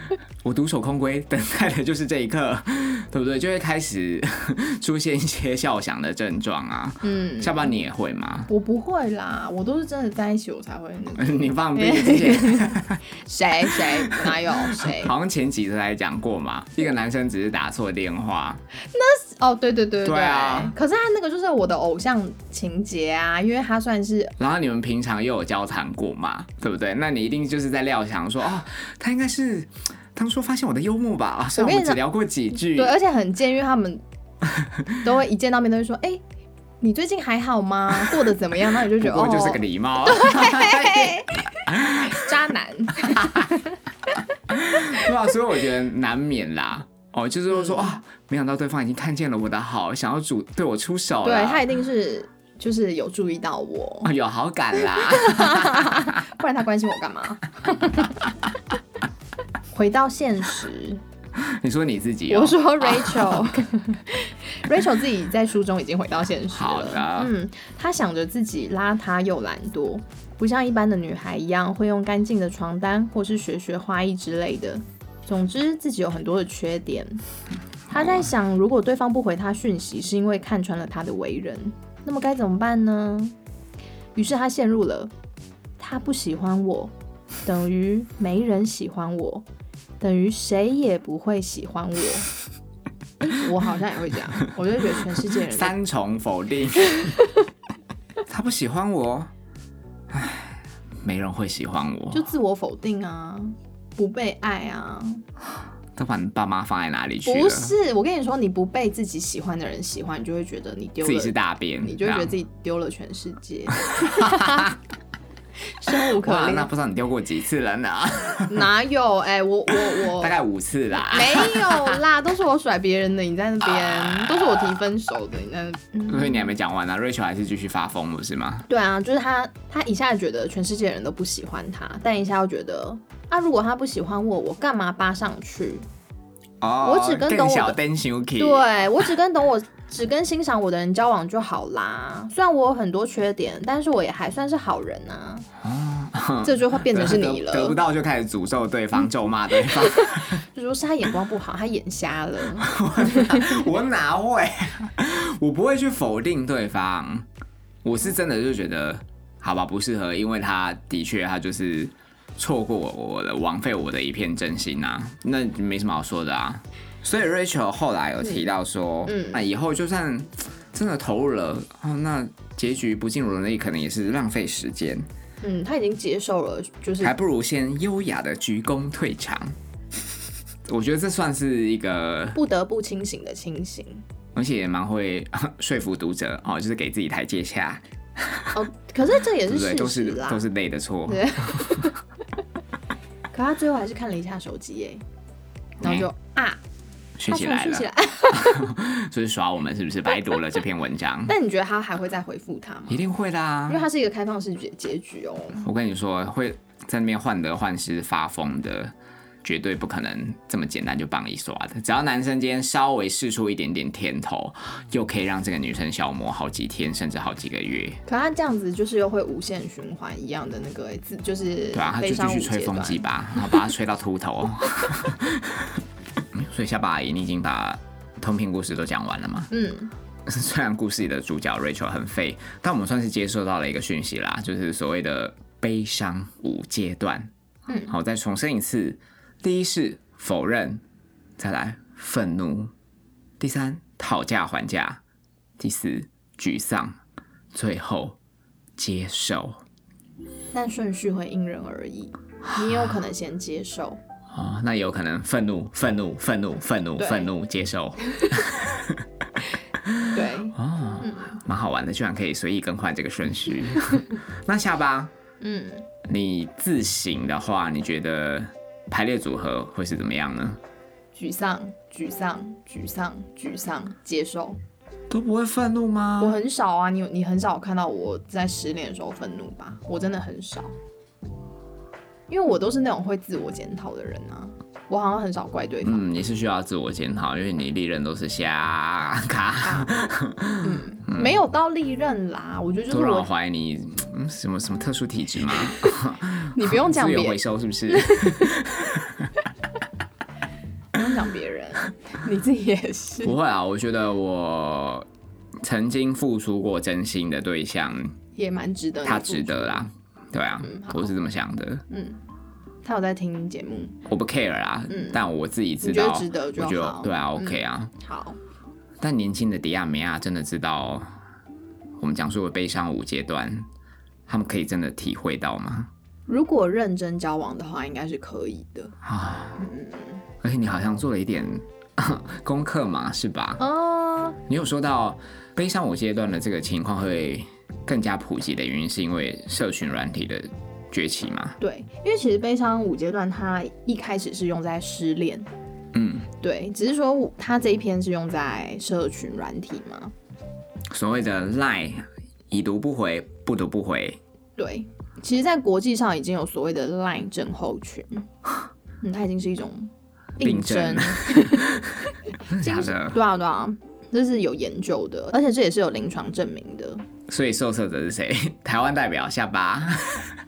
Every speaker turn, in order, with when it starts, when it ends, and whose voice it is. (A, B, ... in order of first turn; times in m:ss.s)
0:00.4-0:08.5 A
0:07.0-0:07.8 B
0:08.5-0:15.1 B
0:11.2-0:13.0 A
0:13.6-0:18.6 A
0:18.9-0:24.3 B
0:20.0-0:20.7 A
0:24.4-0:33.0 A
0:31.6-0:34.0 B
0:35.0-0:36.2 B
0:36.8-0:43.8 B
0:38.8-0:42.3 A
0:43.1-0:43.5 A
0:44.5-0:51.6 A
0:47.5-0:47.9 B
0:51.2-0:54.1 B
0:54.0-0:56.2 A
0:54.8-0:58.3 B
0:59.7-1:01.0 B
1:01.4-1:03.4 A
1:02.3-1:17.2 B
1:06.5-1:07.3 A
1:17.9-1:18.3 A
1:17.9-1:23.4 B
1:24.1-1:25.1 B
1:25.8-1:26.9 B
1:27.4-1:29.4 B
1:30.0-1:32.3 B
1:33.2-1:35.7 B
1:35.4-1:37.2 A
1:38.3-1:39.3 A
1:40.1-1:42.3 A
1:42.1-1:45.2 B
1:46.0-1:47.7 A
1:47.2-1:54.7 B
1:51.0-1:52.3 A
1:53.9-1:54.7 A
1:55.7-1:56.7 B
1:55.9-1:58.7 A
1:58.5-2:00.4 B
1:59.7-2:02.0 A
2:01.1-2:06.5 B
2:03.7-2:04.5 A
2:06.1-2:08.7 A
2:08.7-2:15.8 B
2:16.6-2:18.8 A
2:16.8-2:17.8 B
2:18.4-2:25.5 B
2:25.6-2:30.4 A
2:26.4-2:27.8 B
2:29.7-2:33.4 B
2:32.6-2:37.2 A
2:37.8-2:55.0 A
2:49.1-2:49.4 B
2:55.4-2:57.1 B
2:57.0-2:59.6 A
3:00.6-3:02.4 A
3:02.3-3:04.0 B
3:04.3-3:08.6 A
3:08.5-3:10.4 B
3:09.4-3:11.9 A
3:11.1-3:12.0 B
3:13.3-3:15.0 B
3:15.8-3:16.1 A
3:15.8-3:16.6 B
3:17.2-3:21.3 A
3:17.2-3:18.7 B
3:21.3-3:23.0 B
3:22.9-3:23.8 A
3:23.7-3:25.7 B
3:25.6-3:38.0 A
3:38.0-3:43.0 B
3:41.7-3:49.5 A
3:49.5-3:49.9 B
3:50.2-3:57.3 A
3:57.7-3:57.9 B
3:57.9-4:00.8 A
4:01.4-4:02.7 A
4:03.4-4:05.0 A
4:05.6-4:07.0 A
4:07.5-4:08.2 A
4:08.8-4:09.6 A
4:10.5-4:14.0 B
4:12.4-4:13.0 A
4:14.3-4:19.0 A
4:17.0-4:17.3 B
4:19.8-4:25.1 A
4:20.1-4:21.4 B
4:25.4-4:25.9 B
4:26.0-4:30.6 A
4:31.1-4:34.6 B
4:35.1-4:36.4 A
4:36.2-4:40.7 B
4:42.3-4:46.1 B
4:45.8-4:51.3 A
4:49.6-4:50.0 B
4:50.6-4:53.3 B
4:52.9-4:59.3 A
4:55.6-4:56.0 B
4:56.5-4:58.6 B
5:00.9-5:03.4 B
5:03.2-5:05.1 A
5:05.6-5:08.1 A
5:08.4-5:09.8 B
5:09.0-5:11.8 A
5:10.6-5:11.1 B
5:11.9-5:12.2 B
5:12.8-5:14.0 B
5:14.1-5:17.9 A
5:14.9-5:15.2 B
5:15.8-5:18.4 B
5:19.0-5:21.1 A
5:22.0-5:23.7 A
5:24.3-5:25.9 A
5:26.3-5:29.0 B
5:29.0-5:29.6 A
5:29.6-5:30.2 B
5:30.4-5:33.6 A
5:33.6-5:34.4 B
5:34.5-5:41.6 A
5:41.6-5:45.5 B
5:45.9-5:46.3 A
5:46.4-5:50.1 B
5:50.9-5:54.2 A
5:54.6-5:58.3 B
5:59.0-6:01.8 B
6:00.4-6:02.0 A
6:02.5-6:03.2 A
6:02.6-6:07.0 B
6:07.3-6:10.3 A